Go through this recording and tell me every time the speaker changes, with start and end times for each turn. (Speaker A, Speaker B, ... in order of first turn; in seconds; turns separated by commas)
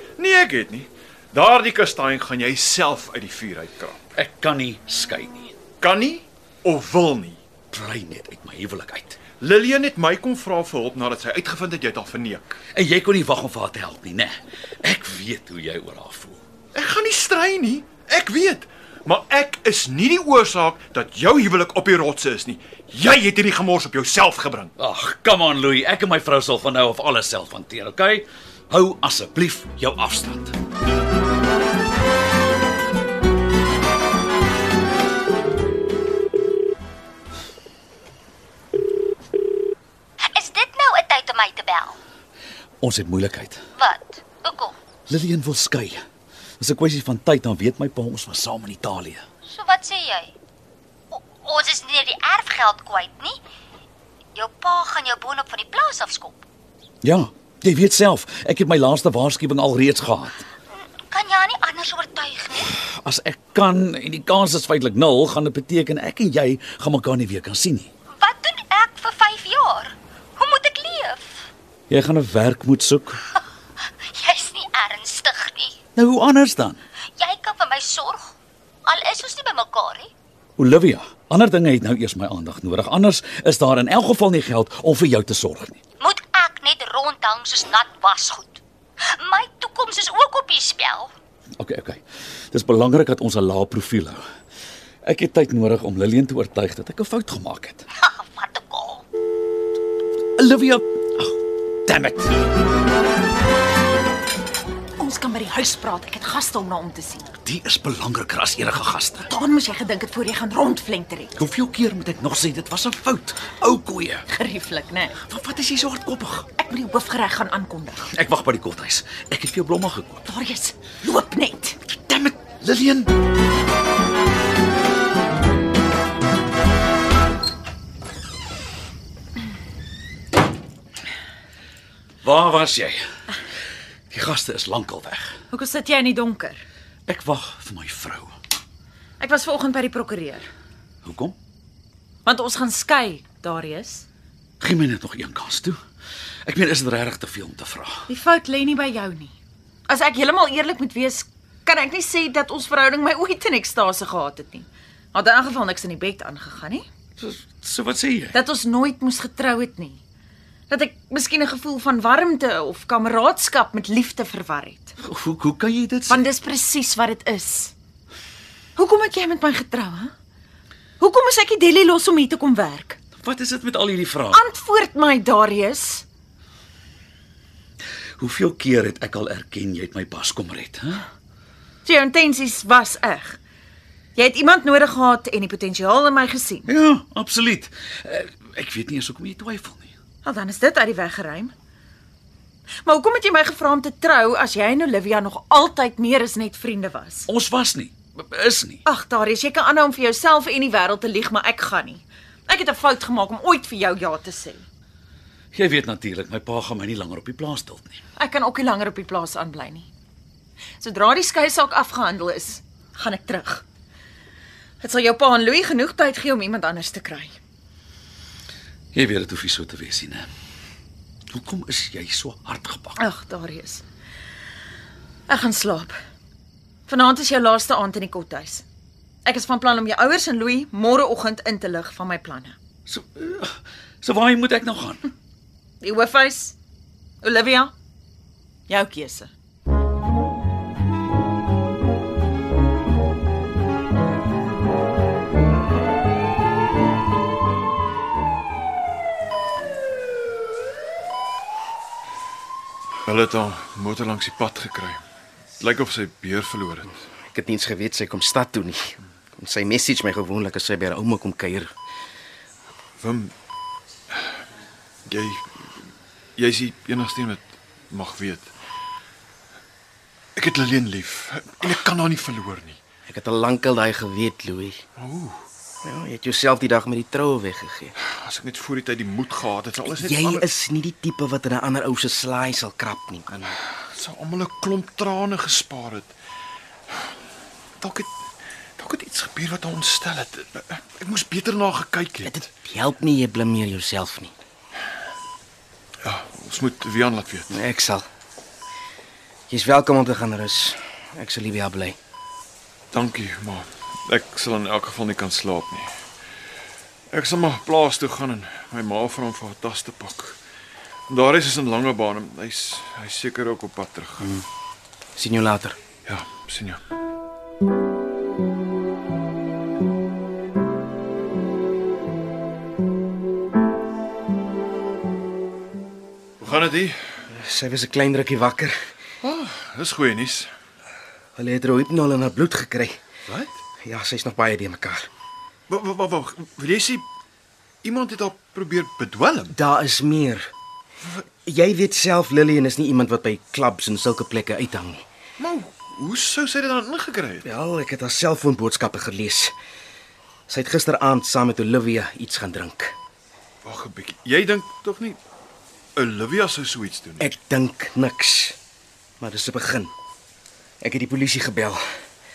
Speaker A: 0.2-4.0, Speaker B: 4.1-5.5, Speaker A: 5.8-7.4, Speaker B: 7.7-9.2, Speaker A: 9.4-12.6, Speaker B: 12.7-16.4, Speaker A: 16.7-24.7, Speaker B: 24.8-30.5, Speaker C: 40.2-42.0, Speaker B: 42.8-43.6, Speaker C: 43.8-44.8, Speaker B: 45.1-46.0, Speaker B: 46.6-49.2, Speaker C: 49.5-50.3, Speaker C: 51.1-53.4, Speaker C: 54.3-56.4, Speaker B: 57.0-60.5, Speaker C: 61.1-62.8, Speaker B: 62.8-67.9, Speaker C: 68.2-71.5, Speaker B: 71.9-73.2, Speaker C: 74.1-75.8, Speaker B: 76.0-76.8, Speaker C: 77.2-78.3, Speaker C: 78.8-80.1, Speaker B: 80.6-85.8, Speaker C: 86.0-91.1, Speaker B: 91.6-94.2, Speaker B: 95.0-97.8, Speaker C: 98.0-99.0, Speaker B: 100.4-102.3, Speaker D: 105.0-107.3, Speaker B: 107.4-109.3, Speaker D: 109.3-111.4, Speaker B: 111.4-114.2, Speaker D: 114.3-115.2, Speaker B: 115.2-116.5, Speaker D: 116.6-118.1, Speaker B: 118.1-120.2, Speaker D: 120.2-121.8, Speaker B: 122.0-123.1, Speaker B: 132.2-133.0, Speaker B: 134.1-135.3, Speaker D: 135.5-136.6, Speaker B: 137.1-138.3, Speaker D: 139.2-140.5, Speaker B: 141.0-141.3, Speaker D: 142.2-144.1, Speaker B: 144.6-145.8, Speaker B: 146.4-148.1, Speaker D: 148.1-149.3, Speaker D: 149.9-156.8, Speaker B: 157.2-158.3, Speaker D: 158.3-160.0, Speaker D: 160.7-164.9, Speaker B: 165.0-166.2, Speaker D: 166.1-167.7, Speaker D: 168.8-170.1, Speaker D: 171.0-173.0, Speaker B: 173.2-174.4, Speaker D: 174.3-176.1, Speaker B: 178.2-181.0, Speaker D: 181.8-183.4, Speaker D: 184.2-186.7, Speaker B: 186.7-189.9, Speaker D: 190.2-191.5, Speaker D: 192.8-197.3, Speaker B: 197.3-198.8, Speaker D: 198.8-204.7, Speaker B: 205.5-208.0, Speaker D: 208.2-209.9, Speaker D: 210.8-213.6, Speaker D: 214.8-217.3, Speaker B: 218.9-220.3, Speaker B: 221.3-223.0, Speaker D: 223.0-223.8, Speaker D: 225.3-226.0, Speaker D: 226.9-228.6, Speaker D: 229.2-232.6, Speaker B: 232.9-235.0, Speaker D: 235.8-236.6, Speaker D: 237.2-237.7, Speaker D: 238.7-239.3, Speaker A: 253.1-255.0, Speaker A: 255.6-256.9, Speaker E: 257.3-261.7, Speaker A: 263.0-263.3, Speaker A: 265.1-265.8, Speaker A: 266.4-268.5, Speaker A: 270.4-272.8, Speaker E: 273.1-274.8, Speaker A: 275.0-275.4, Speaker E: 275.8-277.9, Speaker A: 278.0-280.4, Speaker E: 279.9-283.6, Speaker A: 283.6-286.1, Speaker A: 287.8-288.1, Speaker A: 288.8-292.4, Speaker E: 292.2-294.3, Speaker A: 296.0-297.5, Speaker E: 297.5-298.1, Speaker E: 299.5-302.0, Speaker A: 302.9-305.9, Speaker A: 307.1-310.4, Speaker A: 311.1-314.3, Speaker E: 315.1-315.8, Speaker A: 316.1-316.8, Speaker A: 326.4-327.2, Speaker E: 327.3-328.8, Speaker A: 329.2-330.5, Speaker E: 331.4-333.0, Speaker A: 333.3-333.5, Speaker E: 333.8-335.1, Speaker A: 335.7-337.0, Speaker A: 337.8-339.5, Speaker E: 339.5-340.5, Speaker E: 341.4-345.0, Speaker A: 345.4-347.4, Speaker E: 347.4-349.5, Speaker E: 350.5-352.9, Speaker A: 353.6-355.2, Speaker A: 355.9-357.3, Speaker E: 357.2-358.6, Speaker E: 359.2-359.9, Speaker E: 360.8-361.8